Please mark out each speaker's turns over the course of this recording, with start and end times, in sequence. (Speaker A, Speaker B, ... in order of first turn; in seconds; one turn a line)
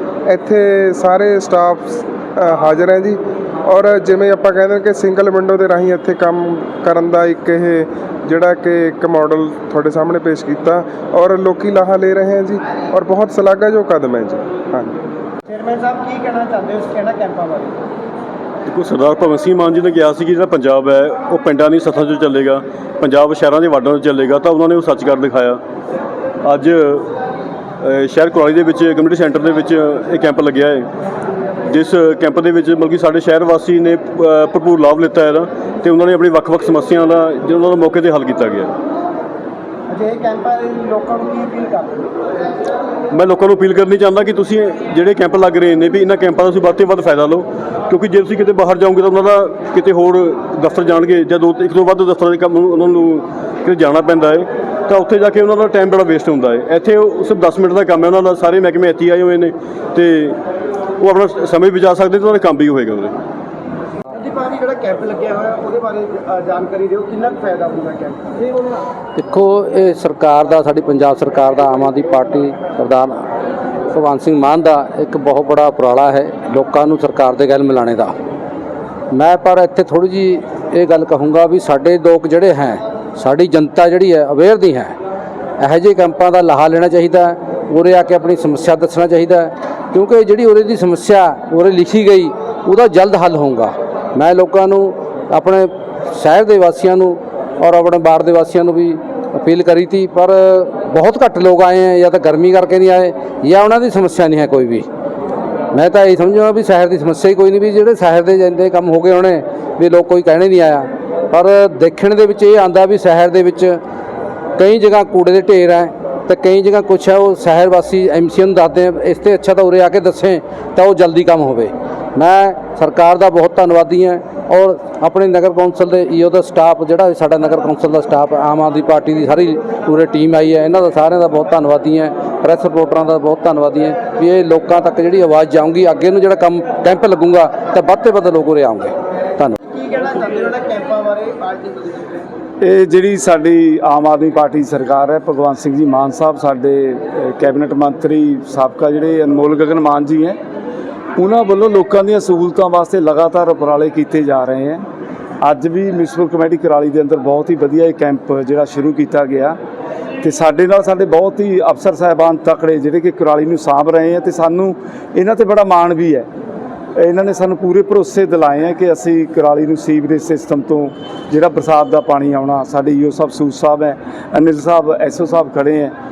Speaker A: 0.3-14.9
Speaker B: 15.5-17.8
Speaker C: 18.7-25.6
Speaker C: 26.4-27.1
Speaker C: 27.8-30.9
Speaker C: 31.7-38.7
Speaker B: 39.9-42.3
Speaker C: 43.1-60.4
Speaker C: 61.0-63.1
Speaker B: 64.1-68.8
Speaker D: 69.2-73.2
Speaker D: 73.9-78.2
Speaker D: 79.1-85.0
Speaker D: 85.6-104.9
Speaker D: 105.7-113.8
Speaker D: 114.6-139.6
Speaker B: 139.6-142.2
Speaker E: 142.6-150.4
Speaker E: 151.2-154.8
Speaker E: 155.4-159.6
Speaker E: 160.2-166.3
Speaker E: 167.0-175.9